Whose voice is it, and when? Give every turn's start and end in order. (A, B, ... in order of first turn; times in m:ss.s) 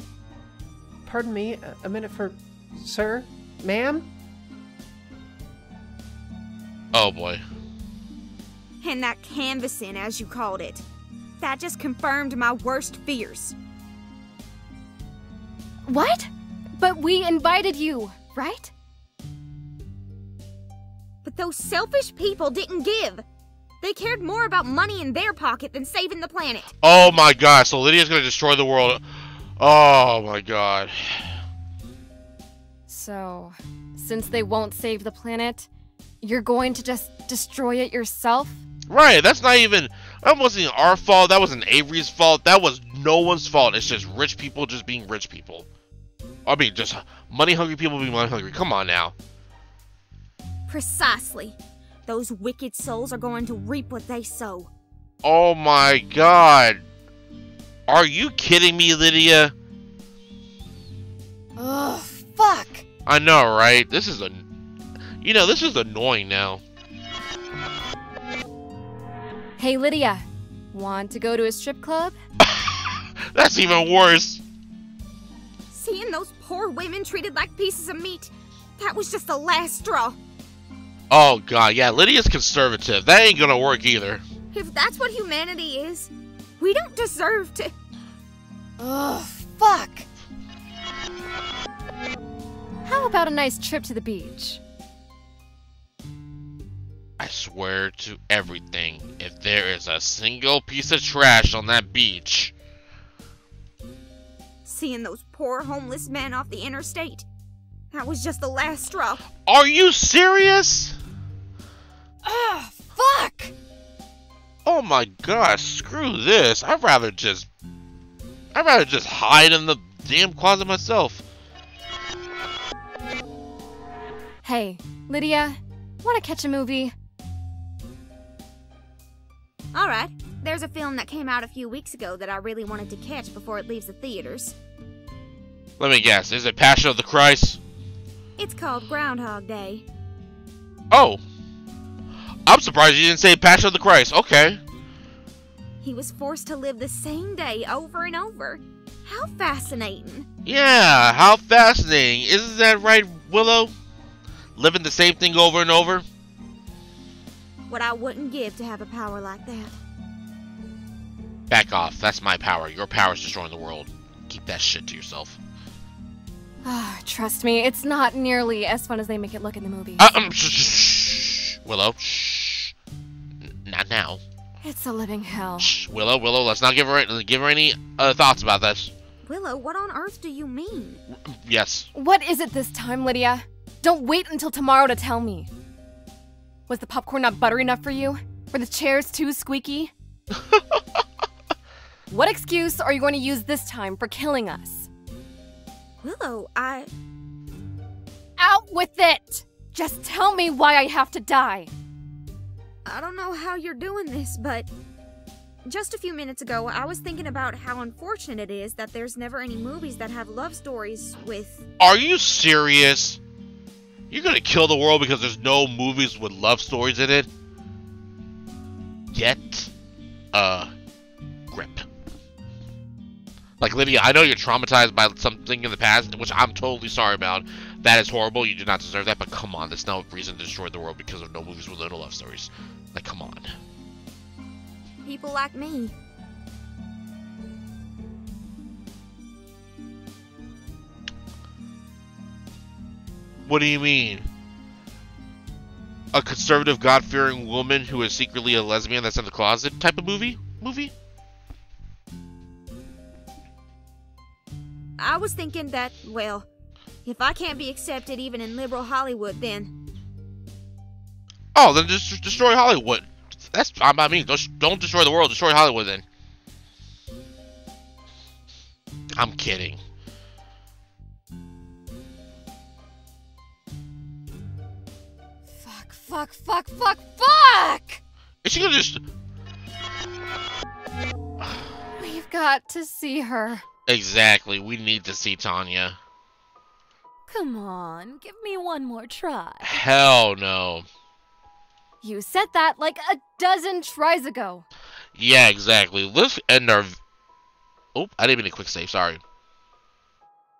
0:01.0-0:04.1 A
0:06.9-0:07.4 B
0:08.8-0:10.8 C
0:11.4-0:13.6 C
0:15.9-0:18.7 D
0:21.2-0:23.2 C
0:23.8-0:26.7 C
0:26.8-0:29.0 B
0:29.6-0:31.4 B
0:32.9-0:35.7 D
0:36.2-0:38.6 D
0:38.9-0:45.7 B
0:46.4-0:49.1 B
0:50.7-0:54.7 C
0:55.2-0:56.8 B
0:57.9-0:59.5 B
1:01.6-1:02.8 D
1:03.0-1:04.4 B
1:05.2-1:06.6 B
1:09.6-1:12.1 D
1:12.4-1:14.4 B
1:15.7-1:20.2 C
1:21.1-1:24.2 B
1:24.5-1:27.7 C
1:28.8-1:30.0 D
1:32.8-1:34.6 D
1:37.2-1:42.5 B
1:44.6-1:47.3 C
1:47.9-1:49.3 C
1:49.3-1:51.0 B
1:52.2-1:53.5 D
1:54.6-1:57.5 B
1:58.5-2:01.2 B
2:04.4-2:06.9 D
2:09.7-2:14.5 C
2:15.8-2:17.6 B
2:18.4-2:19.8 C
2:20.9-2:21.2 B
2:22.4-2:24.6 B
2:25.8-2:30.3 C
2:30.4-2:33.7 B
2:34.6-2:36.0 B
2:37.7-2:39.7 C
2:41.5-2:45.4 B
2:46.6-2:50.1 D
2:50.0-2:52.7 B
2:53.4-2:54.2 B
2:54.6-2:55.7 D
2:55.6-2:58.9 B
2:59.2-3:01.0 C
3:01.3-3:01.9 B
3:01.9-3:05.5 D
3:06.7-3:09.9 D
3:12.1-3:14.9 D
3:16.0-3:16.9 C
3:18.4-3:21.7 D
3:22.8-3:24.7 C
3:25.6-3:31.6 C
3:31.8-3:33.2 B
3:34.1-3:37.3 B
3:39.1-3:39.7 B
3:40.3-3:40.7 B
3:41.5-3:41.8 B
3:43.6-3:53.5 B
3:55.0-3:55.9 C
4:03.4-4:04.3 B
4:06.1-4:10.9 B
4:15.0-4:16.5 C
4:17.0-4:19.7 C
4:21.5-4:26.0 B
4:29.2-4:29.8 B
4:35.5-4:38.0 D
4:38.4-4:39.0 B
4:42.0-4:43.6 D
4:43.9-4:46.0 B
4:47.3-4:49.8 E
4:49.6-4:50.8 B
4:52.0-4:54.6 D
4:55.2-4:57.0 B
4:57.9-4:59.2 B